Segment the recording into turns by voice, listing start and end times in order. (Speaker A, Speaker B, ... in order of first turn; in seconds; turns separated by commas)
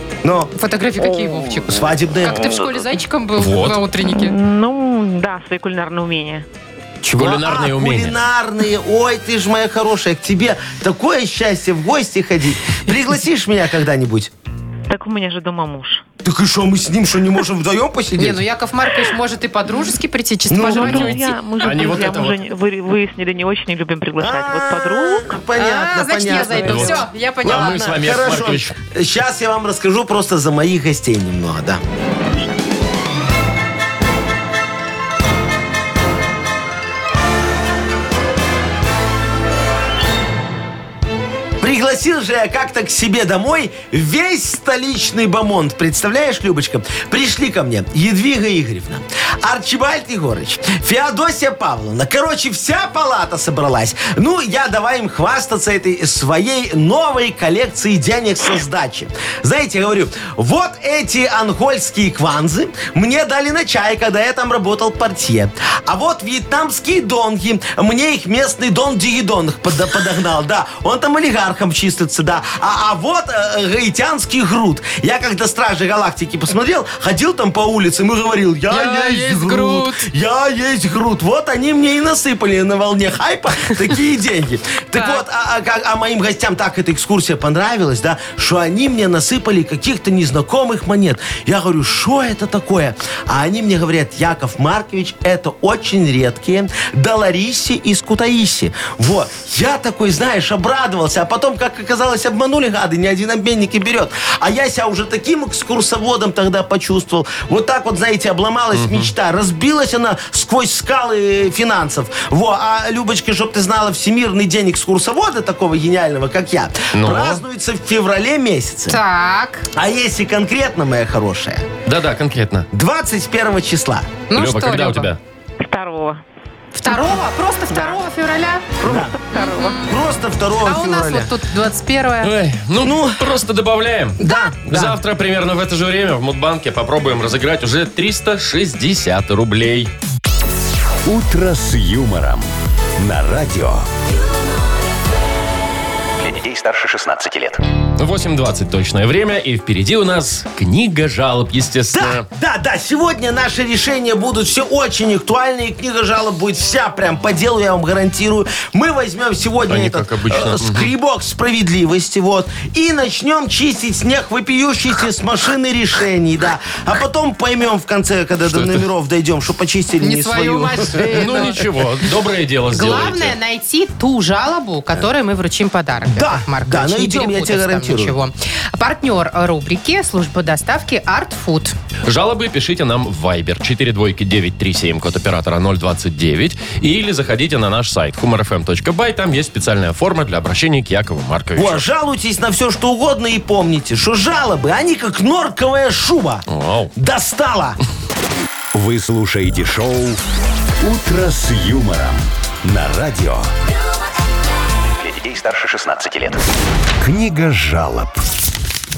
Speaker A: 0.2-0.5, Speaker B: 0.6-4.4, Speaker A: 1.7-2.5, Speaker C: 3.4-3.8, Speaker D: 4.0-6.5, Speaker C: 7.0-8.2, Speaker A: 7.1-14.3, Speaker D: 14.9-16.0, Speaker A: 16.2-18.4, Speaker B: 18.2-21.4, Speaker A: 20.5-21.2, Speaker D: 20.6-25.4, Speaker C: 20.8-22.4, Speaker A: 24.2-31.8, Speaker B: 25.6-27.9, Speaker C: 26.6-28.8, Speaker A: 41.6-119.0, Speaker B: 78.7-80.1, Speaker B: 84.9-85.2, Speaker C: 108.7-109.1, Speaker C: 116.9-117.4, Speaker B: 118.9-119.7, Speaker A: 119.7-121.7, Speaker C: 121.9-122.7, Speaker A: 122.7-124.1, Speaker B: 124.3-125.1, Speaker C: 124.3-125.2, Speaker D: 125.6-126.2, Speaker B: 126.8-128.8, Speaker A: 128.8-131.3, Speaker B: 129.3-129.9, Speaker D: 129.4-129.7, Speaker B: 130.6-132.3, Speaker C: 132.2-139.9, Speaker A: 132.8-133.2, Speaker B: 134.2-134.6, Speaker A: 134.2-135.0, Speaker E: 141.1-143.9, Speaker F: 146.2-147.6, Speaker C: 148.0-152.2, Speaker A: 151.9-171.4, Speaker C: 159.7-160.9, Speaker C: 168.5-168.8, Speaker B: 170.0-171.7, Speaker C: 171.0-173.3, Speaker B: 172.7-181.8, Speaker A: 176.1-178.2, Speaker C: 182.1-191.8, Speaker A: 191.6-197.8, Speaker C: 196.5-196.9, Speaker E: 198.7-200.2, Speaker E: 200.8-203.5, Speaker F: 205.0-206.4, Speaker E: 207.0-208.2